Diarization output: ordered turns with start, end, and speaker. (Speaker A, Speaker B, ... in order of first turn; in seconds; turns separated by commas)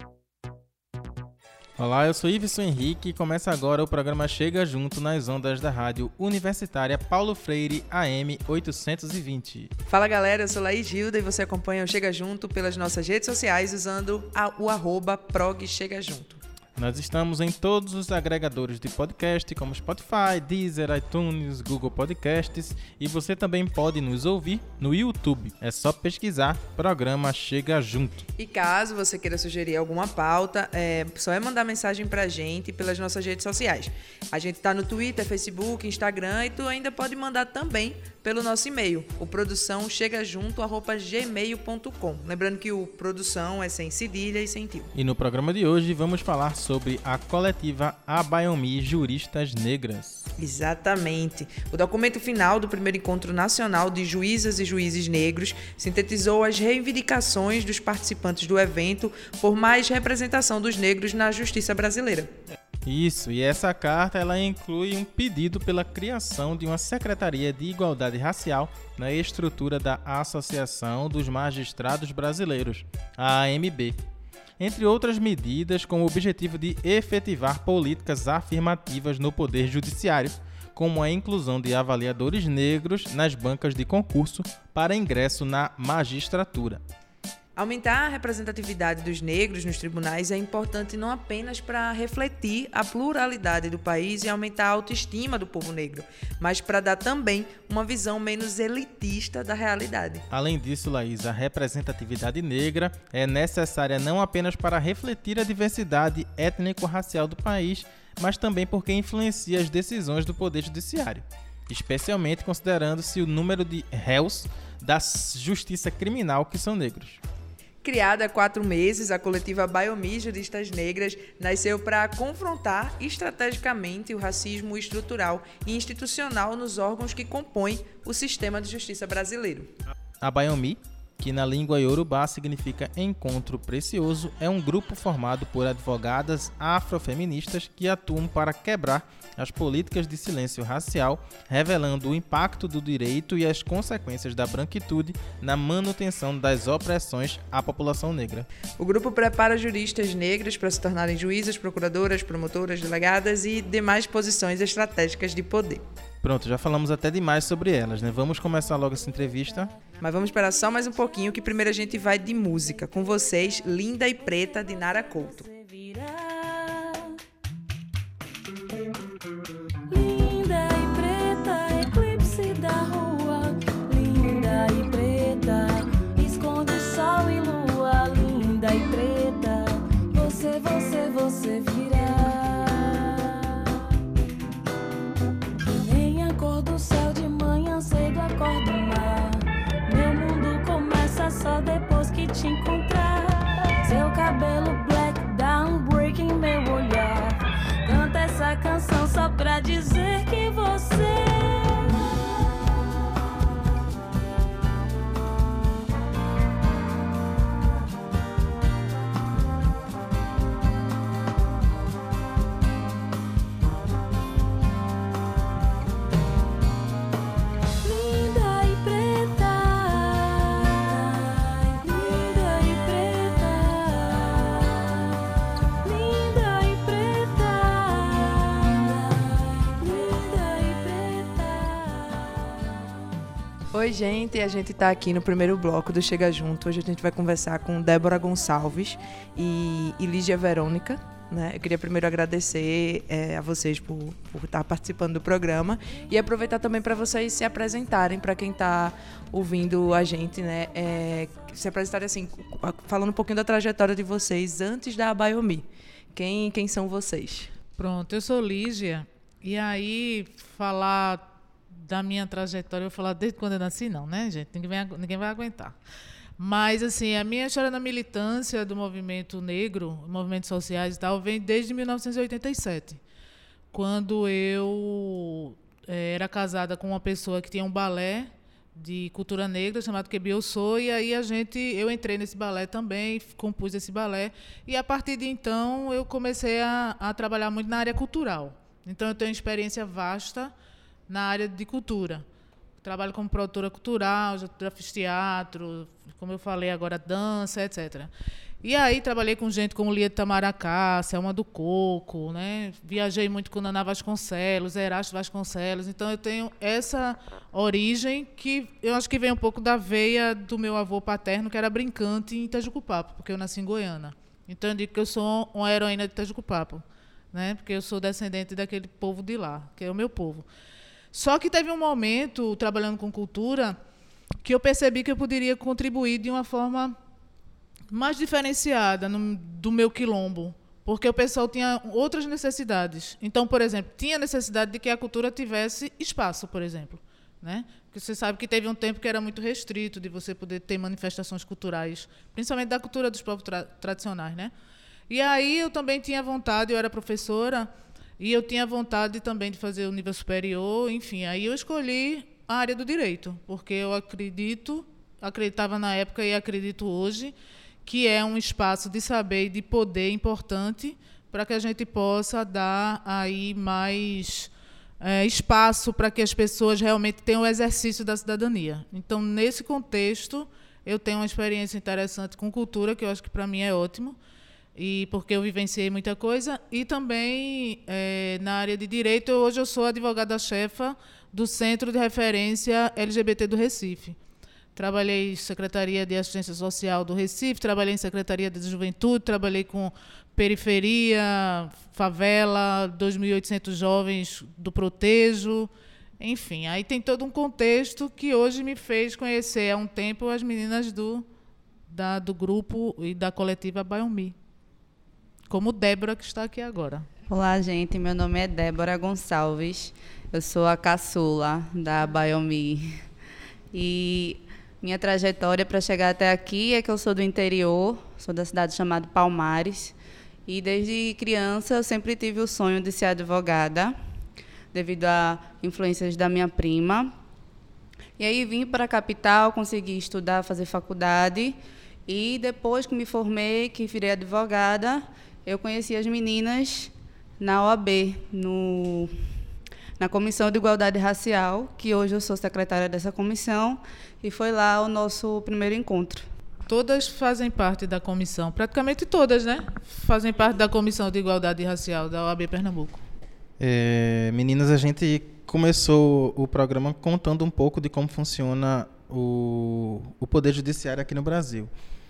Speaker A: 1.8-9.7, Speaker B: 9.9-16.4, Speaker A: 16.8-28.3, Speaker B: 28.4-44.9, Speaker A: 45.0-50.3, Speaker B: 50.4-62.3, Speaker A: 62.9-74.0, Speaker A: 74.6-86.8, Speaker B: 87.6-100.2, Speaker A: 100.3-117.2, Speaker B: 117.8-129.7, Speaker A: 130.2-148.5, Speaker B: 148.8-155.8, Speaker A: 156.2-159.7, Speaker B: 160.0-165.5, Speaker C: 165.4-167.1, Speaker C: 169.9-183.4, Speaker C: 185.8-201.9, Speaker C: 217.8-225.1, Speaker C: 225.8-232.5, Speaker B: 233.7-257.5, Speaker D: 257.8-265.8, Speaker D: 266.4-273.0, Speaker D: 273.7-290.5, Speaker D: 291.1-292.3, Speaker D: 292.8-298.1, Speaker D: 298.6-320.5, Speaker D: 321.1-323.8, Speaker D: 324.4-327.0, Speaker D: 327.9-344.5, Speaker D: 345.1-364.5, Speaker D: 365.0-374.2, Speaker D: 374.8-384.2, Speaker D: 384.8-401.3, Speaker D: 401.9-404.4, Speaker D: 405.5-407.1, Speaker E: 407.3-413.0, Speaker E: 413.7-419.9, Speaker E: 420.5-424.0, Speaker E: 424.7-427.1, Speaker E: 428.2-439.1, Speaker E: 440.0-446.3, Speaker D: 446.7-453.0, Speaker A: 453.6-461.7